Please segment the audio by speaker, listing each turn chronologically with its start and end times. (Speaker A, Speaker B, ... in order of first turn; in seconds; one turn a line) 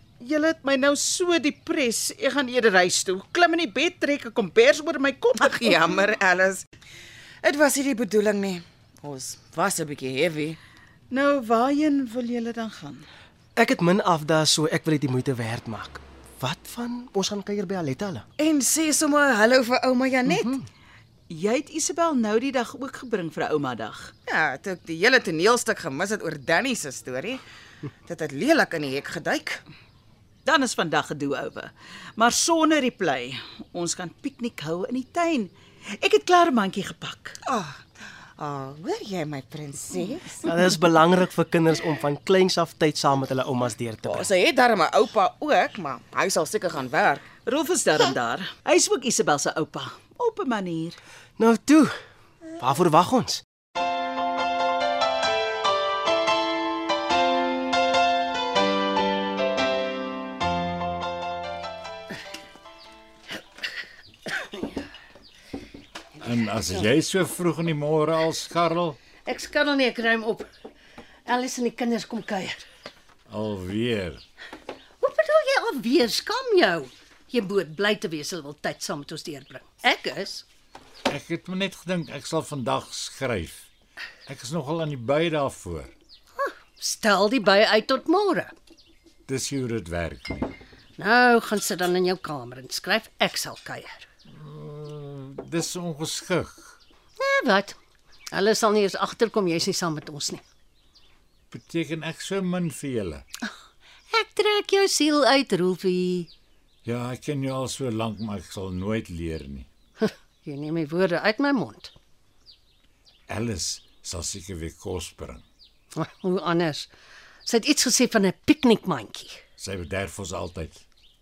Speaker A: 0.2-5.9
Speaker B: 5.4-6.6
Speaker B: 7.4-10.6
Speaker A: 11.1-13.1
Speaker C: 13.6-18.2
Speaker B: 18.4-20.6
Speaker A: 21.3-24.1
Speaker B: 24.3-27.4
Speaker B: 28.1-29.6
Speaker A: 30.4-37.4
Speaker B: 37.5-37.8
Speaker B: 38.4-40.5
Speaker C: 40.4-44.3
Speaker B: 44.0-47.2
Speaker A: 47.4-51.0
Speaker C: 51.4-51.9
Speaker C: 52.6-53.4
Speaker D: 66.2-69.0
Speaker E: 69.2-70.5
Speaker E: 71.2-72.6
Speaker D: 73.3-74.2
Speaker E: 75.0-80.4
Speaker D: 81.1-83.7
Speaker D: 84.3-85.9
Speaker E: 86.4-88.5
Speaker D: 89.3-90.5
Speaker E: 91.0-94.0
Speaker D: 94.4-96.7
Speaker E: 97.2-97.8
Speaker E: 98.3-100.4
Speaker D: 101.5-103.2
Speaker E: 104.1-106.3
Speaker D: 106.8-109.7
Speaker E: 110.0-111.9
Speaker D: 113.3-115.4
Speaker E: 115.9-116.9
Speaker E: 117.5-119.4
Speaker D: 119.6-120.8